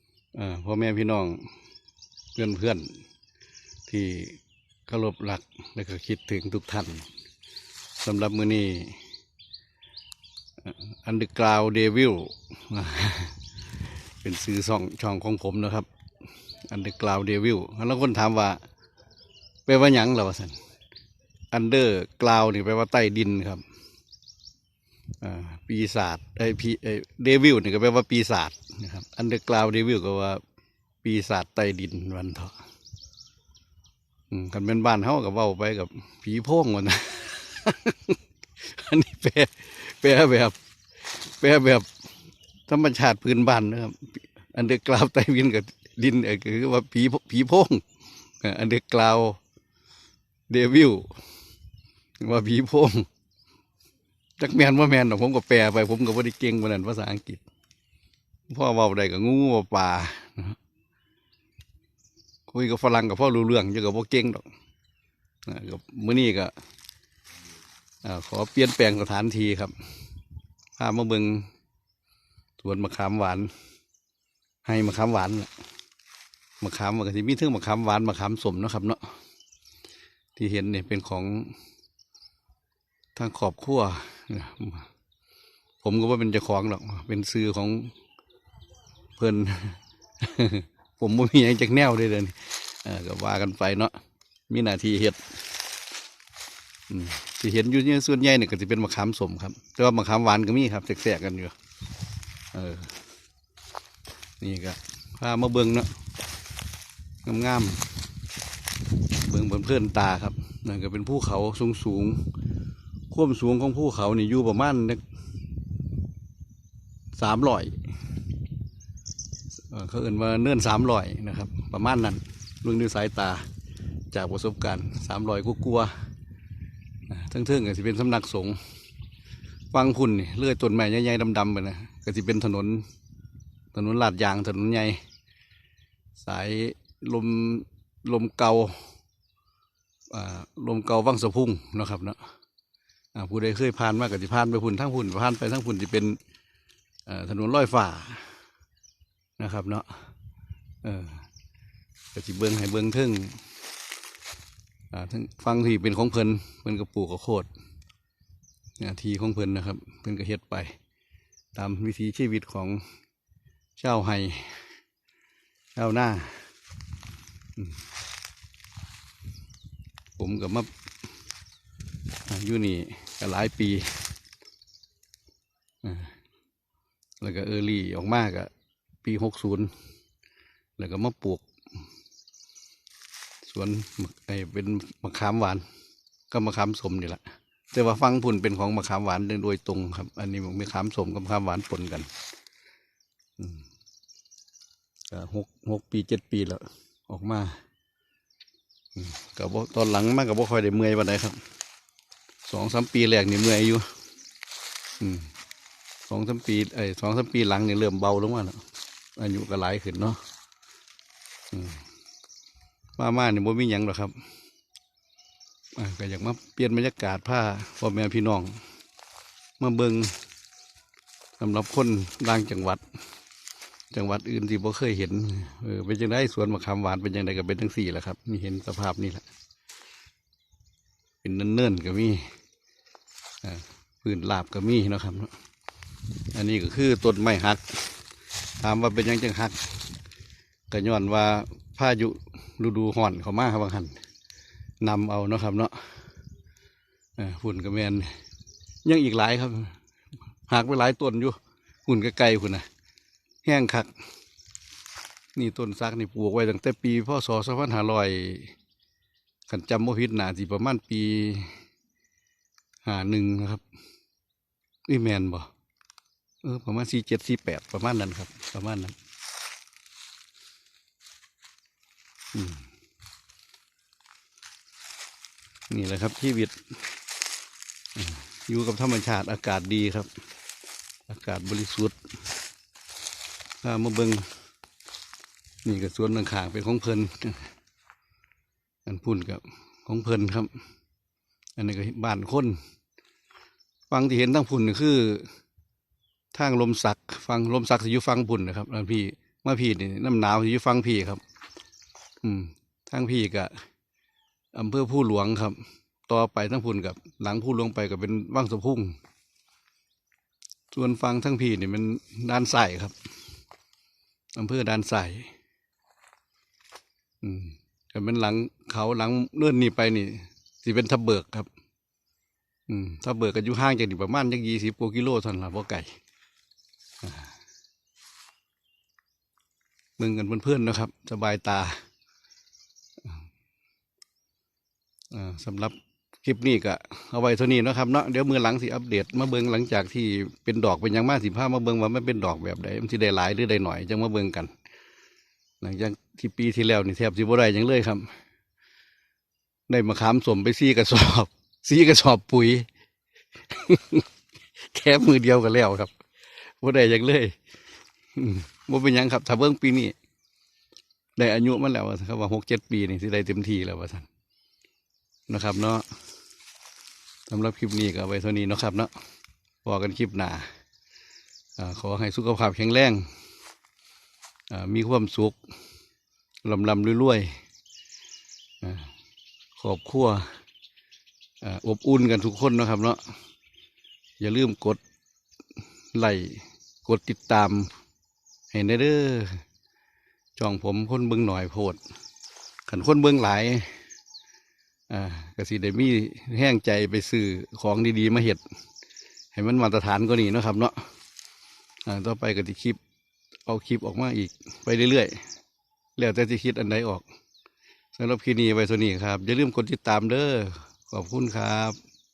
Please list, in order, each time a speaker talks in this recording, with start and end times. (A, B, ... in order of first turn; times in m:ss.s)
0:00.3-0:01.5 A
0:02.3-0:03.0 A
0:03.9-0:07.1 A
0:08.0-0:09.0 A
0:10.6-0:13.4 A
0:14.2-0:15.9 A
0:16.6-0:18.6 A
0:19.6-0:20.6 A
0:21.5-0:23.6 A
0:25.2-0:30.4 A
0:31.0-0:32.6 A
0:34.3-0:40.6 A
0:41.1-0:41.9 A
0:42.7-0:47.8 A
0:48.4-0:49.4 A
0:50.5-0:51.2 A
0:52.2-0:53.1 A
0:54.4-0:57.4 A
0:58.5-1:00.6 A
1:02.5-1:04.5 A
1:05.4-1:06.5 A
1:08.0-1:09.8 A
1:10.8-1:11.5 A
1:12.6-1:13.5 A
1:14.6-1:15.5 A
1:16.6-1:19.1 A
1:20.4-1:21.6 A
1:23.1-1:24.9 A
1:25.8-1:27.9 A
1:29.2-1:34.0 A
1:34.5-1:35.2 A
1:36.9-1:41.5 A
1:42.5-1:43.0 A
1:44.4-1:45.9 A
1:47.2-1:47.8 A
1:49.2-1:52.3 A
1:53.1-1:55.0 A
1:57.1-1:57.8 A
1:59.7-2:03.5 A
2:04.1-2:05.9 A
2:07.1-2:08.6 A
2:09.7-2:12.9 A
2:13.7-2:15.0 A
2:16.2-2:18.9 A
2:20.1-2:22.3 A
2:23.1-2:26.2 A
2:27.0-2:28.3 A
2:29.4-2:30.1 A
2:30.8-2:31.2 A
2:32.1-2:33.4 A
2:34.9-2:37.5 A
2:38.8-2:40.8 A
2:41.5-2:42.8 A
2:43.8-2:44.6 A
2:45.8-2:46.5 A
2:50.2-2:50.7 A
2:52.3-2:54.1 A
2:55.8-2:56.1 A
2:57.2-2:58.5 A
2:59.0-2:59.7 A
3:00.8-3:01.4 A
3:03.4-3:05.6 A
3:06.3-3:12.1 A
3:13.4-3:13.6 A
3:15.1-3:17.6 A
3:19.0-3:21.4 A
3:22.4-3:23.9 A
3:25.0-3:25.3 A
3:26.1-3:28.6 A
3:29.2-3:30.2 A
3:31.5-3:31.8 A
3:33.0-3:34.2 A
3:35.8-3:38.6 A
3:39.6-3:40.2 A
3:41.4-3:42.8 A
3:43.9-3:49.2 A
3:51.2-3:52.3 A
3:53.4-3:55.3 A
3:56.3-3:58.0 A
3:58.6-3:59.8 A
4:00.7-4:04.0 A
4:04.8-4:06.0 A
4:07.2-4:08.1 A
4:08.8-4:09.8 A
4:10.4-4:12.6 A
4:13.4-4:13.9 A
4:15.4-4:18.5 A
4:19.5-4:21.6 A
4:22.8-4:23.6 A
4:24.9-4:25.5 A
4:26.4-4:29.0 A
4:32.3-4:32.6 A
4:35.7-4:36.6 A
4:38.0-4:40.1 A
4:41.1-4:42.0 A
4:43.6-4:44.3 A
4:45.6-4:47.5 A
4:48.8-4:50.5 A
4:51.6-4:52.6 A
4:53.9-4:55.3 A
4:56.3-5:01.2 A
5:02.2-5:03.6 A
5:04.5-5:08.9 A
5:10.7-5:12.9 A
5:14.4-5:15.3 A
5:17.2-5:21.5 A
5:22.7-5:26.0 A
5:27.0-5:27.3 A
5:30.0-5:31.8 A
5:35.1-5:44.5 A
5:45.6-5:48.1 A
5:49.7-5:52.7 A
5:53.5-5:54.0 A
5:54.6-5:55.9 A
5:56.6-5:57.4 A
5:58.1-5:59.9 A
6:01.2-6:04.1 A
6:05.3-6:05.9 A
6:07.3-6:08.9 A
6:09.6-6:10.5 A
6:11.6-6:13.1 A
6:14.5-6:15.4 A
6:16.4-6:17.4 A
6:18.6-6:18.9 A
6:19.6-6:20.3 A
6:21.4-6:23.1 A
6:24.2-6:24.8 A
6:25.9-6:27.7 A
6:28.5-6:29.4 A
6:30.4-6:31.8 A
6:32.7-6:33.8 A
6:34.9-6:38.4 A
6:39.3-6:40.9 A
6:41.8-6:42.8 A
6:43.5-6:45.2 A
6:46.0-6:47.0 A
6:47.9-6:51.8 A